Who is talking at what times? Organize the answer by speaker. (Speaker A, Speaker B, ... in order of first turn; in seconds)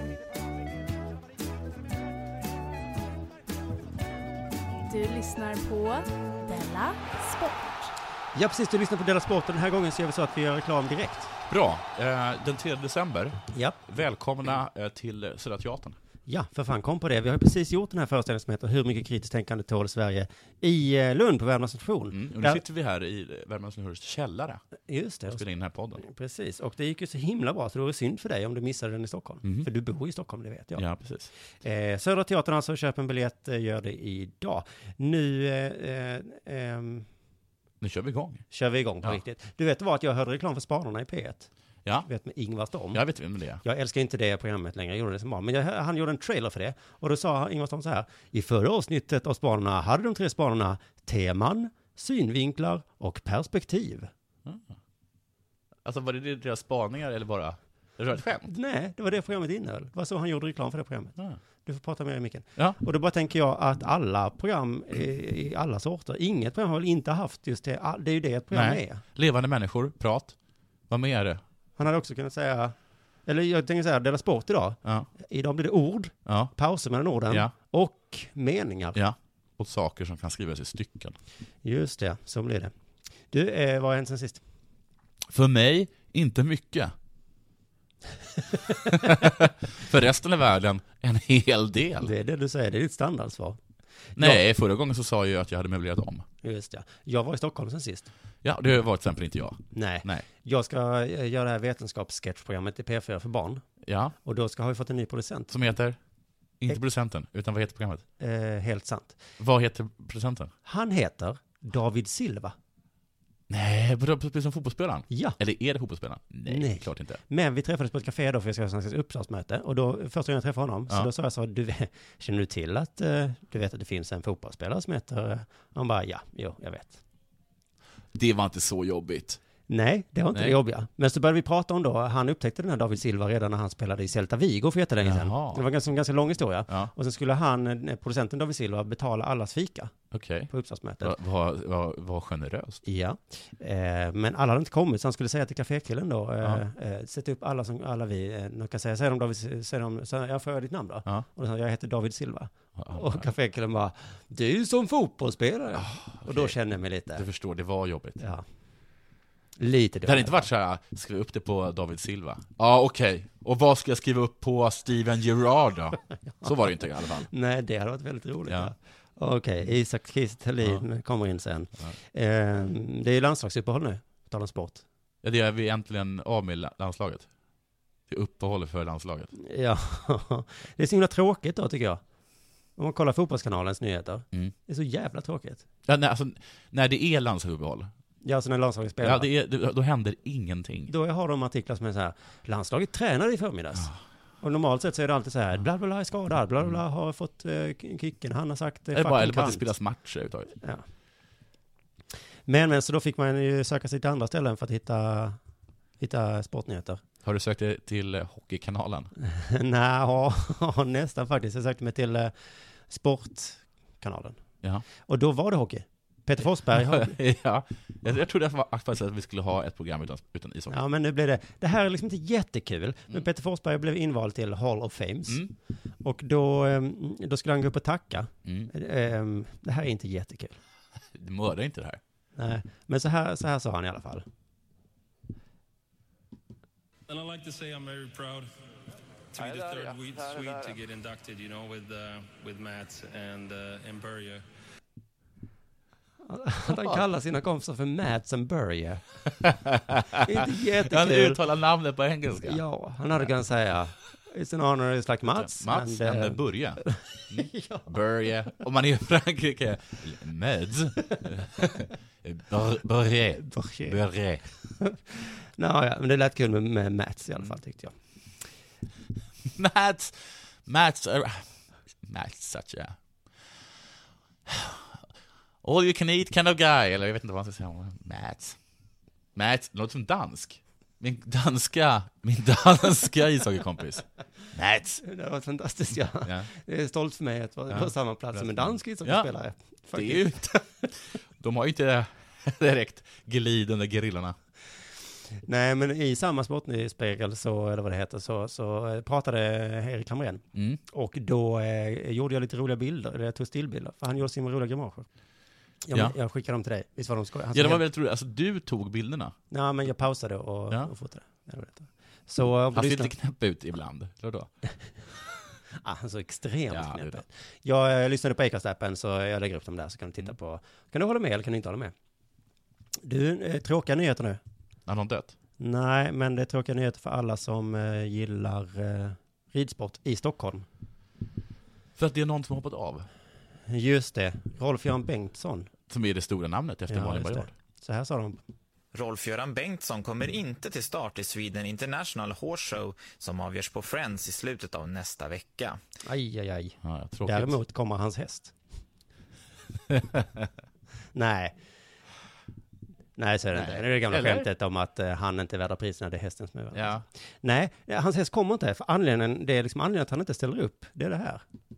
Speaker A: 4.8-7.9
Speaker B: 8.3-11.3, 13.5-13.8, 16.3-22.6, 24.9-25.4, 26.0-30.8, 31.6-37.1, 38.5-41.5, 42.0-43.0, 43.6-54.1, 58.5-69.0, 71.8-79.0, 81.6-82.7, 83.3-84.4, 92.0-93.6, 94.2-94.4, 96.4-98.1, 99.7-103.6, 104.2-105.5, 108.2-109.2, 110.6-112.5, 115.1-115.4, 116.5-127.0, 129.7-139.9, 140.5-141.2, 142.8-157.2, 159.6-160.5, 167.3-174.8, 179.3-182.0, 182.8-185.6, 188.2-189.3, 190.9-199.7, 200.6-200.8, 202.4-205.4, 206.0-207.0, 209.2-212.3, 212.9-214.4, 215.0-217.1, 220.7-225.4, 226.0-230.6, 232.3-234.2, 246.2-249.0, 250.1-251.4, 252.4-257.9, 263.4-264.0, 264.8-267.9, 285.0-290.6, 295.4-305.1, 305.8-307.8, 309.5-313.1, 315.8-321.9, 323.0-324.4, 325.6-330.6, 333.7-335.7, 336.9-338.4, 346.0-348.5, 351.1-351.6, 353.2-361.4
Speaker C: 11.5-16.0, 22.1-24.6, 25.3-26.0, 30.8-31.3, 37.8-38.4, 42.9-43.6, 55.8-58.5, 68.5-70.3, 70.9-71.4, 76.2-76.5, 78.9-81.2, 85.3-86.9, 88.8-92.1, 94.2-96.2, 98.4-100.2, 103.8-104.1, 105.5-106.0, 106.6-108.0, 109.4-110.5, 113.5-117.2, 128.1-129.4, 135.0-135.7, 140.1-140.5, 141.0-142.8, 152.8-153.2, 155.7-156.6, 157.2-158.2, 160.1-167.3, 175.2-177.3, 178.1-179.3, 185.8-187.9, 189.0-190.9, 198.9-200.5, 207.2-209.1, 216.7-220.8, 225.3-225.5, 228.4-228.7, 231.1-232.0, 246.7-247.0, 249.4-252.6, 255.4-264.4, 269.4-271.5, 272.0-272.9, 274.4-275.0, 275.6-278.6, 279.3-285.0, 286.2-286.5, 287.7-289.3, 289.9-294.4, 300.5-300.8, 307.5-309.3, 312.7-314.5, 316.7-317.2, 324.9-325.3, 332.0-333.1, 335.9-337.5, 346.8-347.6, 349.9-350.4, 353.5-354.5, 356.7-357.0
Speaker D: 237.1-238.5, 239.3-244.4
Speaker E: 338.9-345.8